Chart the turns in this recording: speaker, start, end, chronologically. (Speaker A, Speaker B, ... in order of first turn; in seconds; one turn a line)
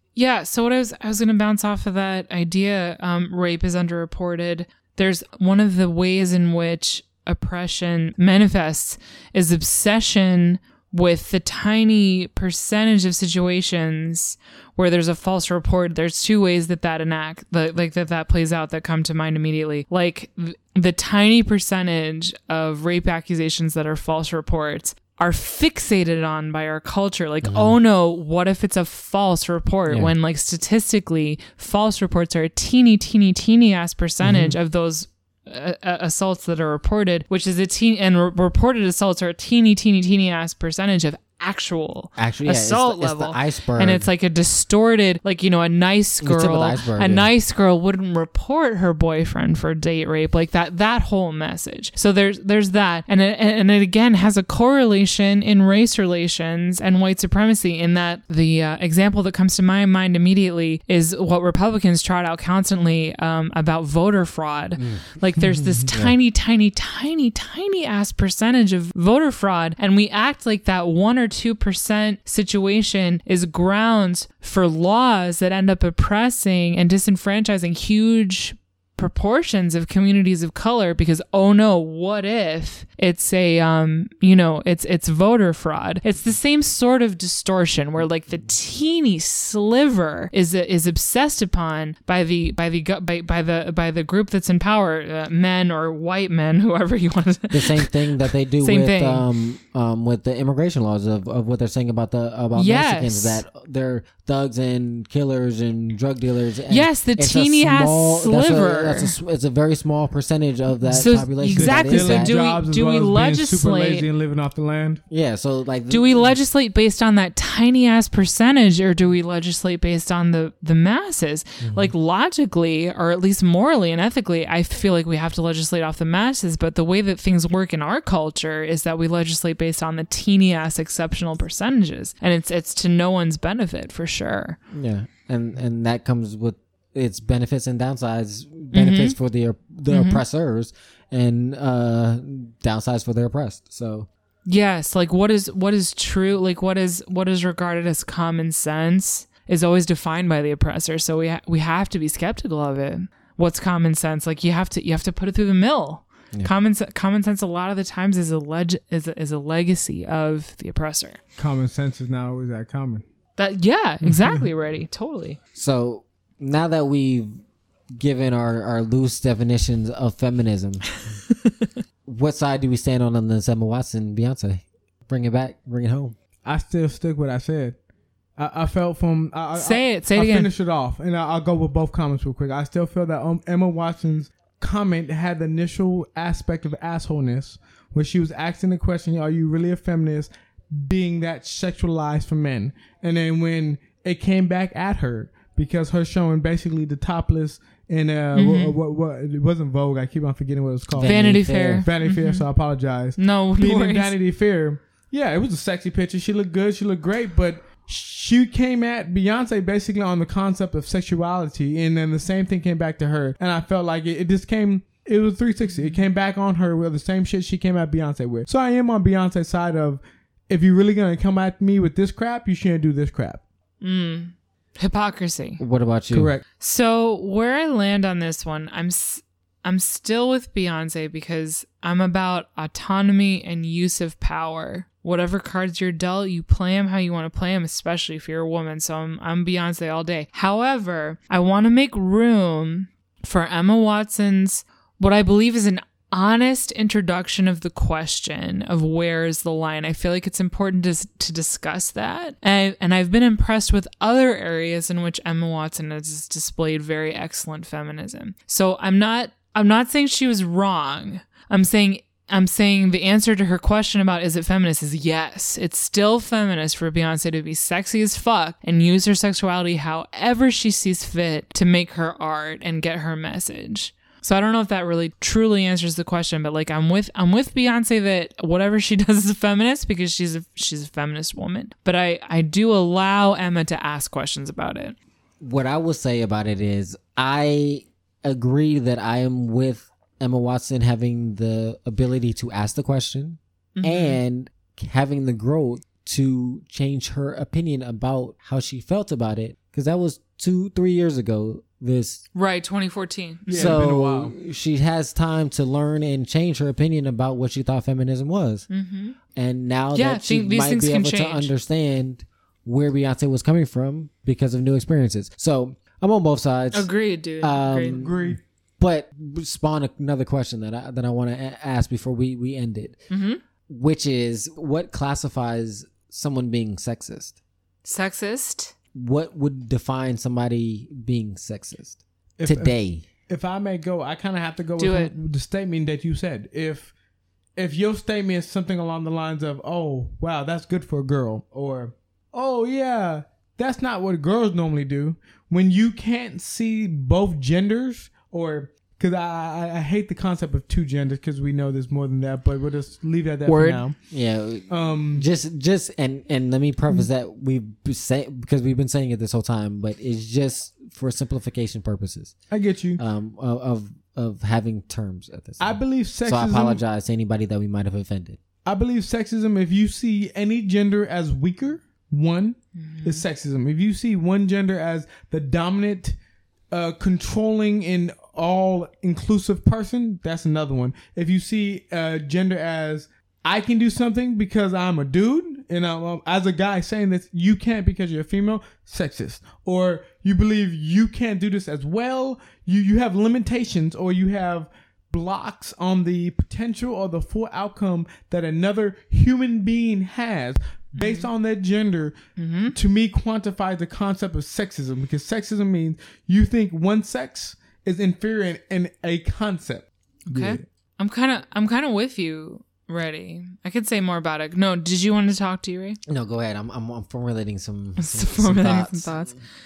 Speaker A: 0.1-99.2
Speaker B: 27.4-27.7
Speaker B: 34.2-34.5
Speaker B: 42.2-44.1
Speaker B: 46.2-47.3
Speaker B: 64.8-66.1
Speaker B: 97.5-112.3
Speaker A: 102.5-103.4
Speaker A: 106.7-109.2
Speaker A: 110.9-114.0
Speaker C: 111.5-115.0
Speaker B: 115.1-116.3
Speaker A: 115.9-134.6
Speaker B: 121.6-121.9
Speaker B: 134.7-144.1
Speaker A: 138.7-139.2
Speaker A: 139.9-140.2
Speaker A: 144.5-161.2
Speaker C: 161.4-163.0
Speaker A: 163.4-165.4
Speaker C: 164.0-164.4
Speaker B: 165.5-167.3
Speaker B: 168.0-170.9
Speaker B: 172.1-176.1
Speaker C: 176.4-177.8
Speaker C: 178.4-223.4
Speaker A: 179.6-180.5
Speaker A: 198.3-198.7
Speaker B: 200.9-201.8
Speaker A: 201.0-202.4
Speaker A: 203.2-204.1
Speaker A: 223.8-225.6
Speaker B: 225.6-226.3
Speaker C: 226.1-226.4
Speaker A: 226.6-284.9
Speaker B: 285.4-302.2
Speaker A: 293.8-294.2
Speaker A: 302.3-303.8
Speaker C: 303.5-304.3
Speaker B: 303.5-308.7
Speaker A: 308.7-309.1
Speaker B: 309.3-323.0
Speaker A: 309.9-311.5
Speaker A: 316.7-318.0
Speaker C: 317.9-318.4
Speaker A: 323.1-323.4
Speaker B: 323.7-327.4
Speaker A: 327.8-328.7
Speaker B: 328.9-333.0
Speaker C: 332.4-332.7
Speaker C: 333.3-336.9
Speaker A: 334.8-335.1
Speaker C: 337.6-354.0
Speaker A: 353.4-353.8
Speaker B: 354.1-362.4
Speaker C: 354.7-355.2
Speaker C: 362.5-363.0
Speaker B: 363.0-368.4
Speaker C: 365.6-366.8
Speaker C: 368.6-376.1
Speaker A: 372.8-373.2
Speaker C: 376.7-402.2
Speaker A: 400.9-401.3
Speaker A: 402.4-402.7
Speaker C: 402.7-410.6
Speaker A: 410.3-416.0
Speaker B: 416.1-419.4
Speaker A: 418.0-419.4